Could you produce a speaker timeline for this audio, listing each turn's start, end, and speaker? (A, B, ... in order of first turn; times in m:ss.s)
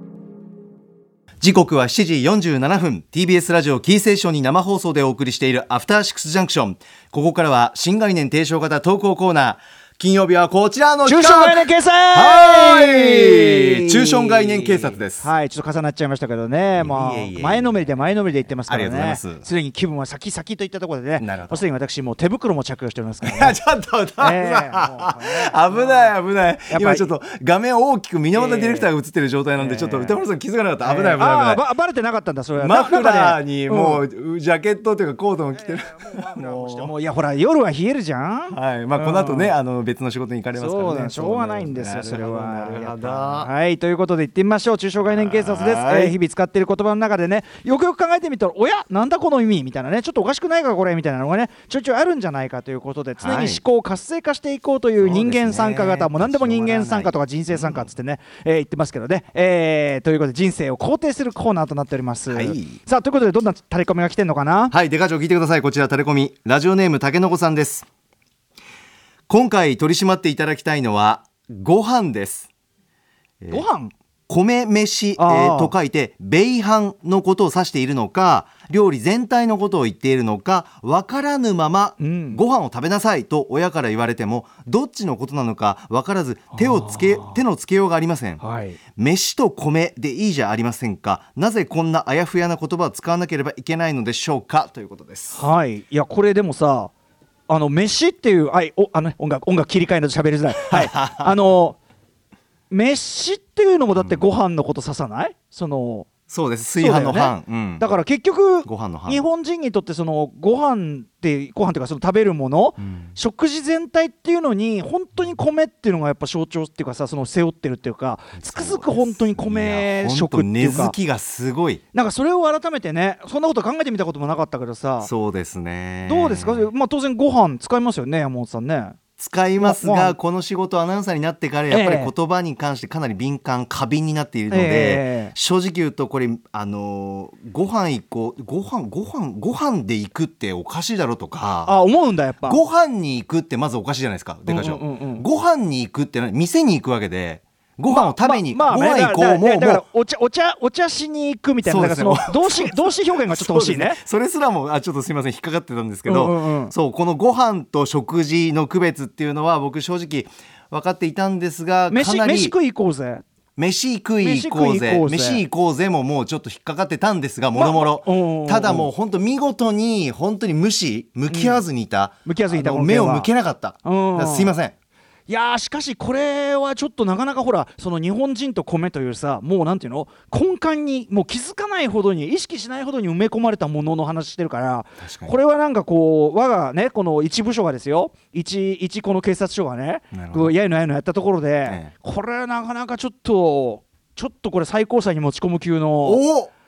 0:01.4-0:15.3 A
0:11.0-0:23.6 B
0:16.8-0:17.8 A
0:18.7-0:19.4 A
0:21.2-0:21.6 A
0:23.2-0:31.6 A
0:24.2-0:26.1 B
0:26.7-0:27.1 B
0:28.3-0:28.9 B
0:29.5-0:30.2 B
0:30.8-0:34.0 B
0:32.6-0:36.9 A
0:35.5-0:39.5 B
0:38.5-0:43.5 A
0:40.5-1:04.7 B
0:45.0-0:46.1 A
0:53.2-0:53.6 A
0:55.0-0:57.9 A
1:02.3-1:02.8 A
1:04.7-1:07.9 A
1:09.3-1:12.5 A
1:13.4-1:13.6 A
1:13.5-1:13.9 B
1:14.3-1:28.4 A
1:15.2-1:15.7 B
1:22.0-1:22.4 B
1:26.5-1:27.4 B
1:28.4-1:28.8 B
1:29.0-1:35.4 A
1:35.3-1:36.9 B
1:37.5-1:41.8 B
1:40.6-1:41.3 A
1:42.7-1:46.1 B
1:44.0-1:44.3 A
1:46.3-1:47.9 A
1:46.8-2:01.0 B
1:48.6-1:49.2 A
1:52.8-1:53.1 A
1:58.4-2:01.8 A
2:01.9-2:05.1 B
2:05.0-2:06.7 A
2:06.0-2:09.0 B
2:09.2-2:21.8 A
2:09.6-2:10.2 B
2:11.7-2:12.1 B
2:14.5-2:15.3 B
2:21.6-2:22.6 B
2:22.4-2:29.8 A
2:24.5-2:25.2 B
2:27.9-2:34.0 B
2:31.6-2:42.5 A
2:36.0-2:36.7 B
2:41.9-2:43.2 B
2:43.6-2:54.7 A
2:44.2-2:45.4 B
2:47.5-2:48.9 B
2:51.3-2:51.6 B
2:52.2-2:53.3 B
2:53.8-2:54.5 B
2:55.3-3:16.2 B
3:05.0-3:05.3 A
3:10.1-3:10.5 A
3:11.6-3:11.9 A
3:16.0-3:16.5 A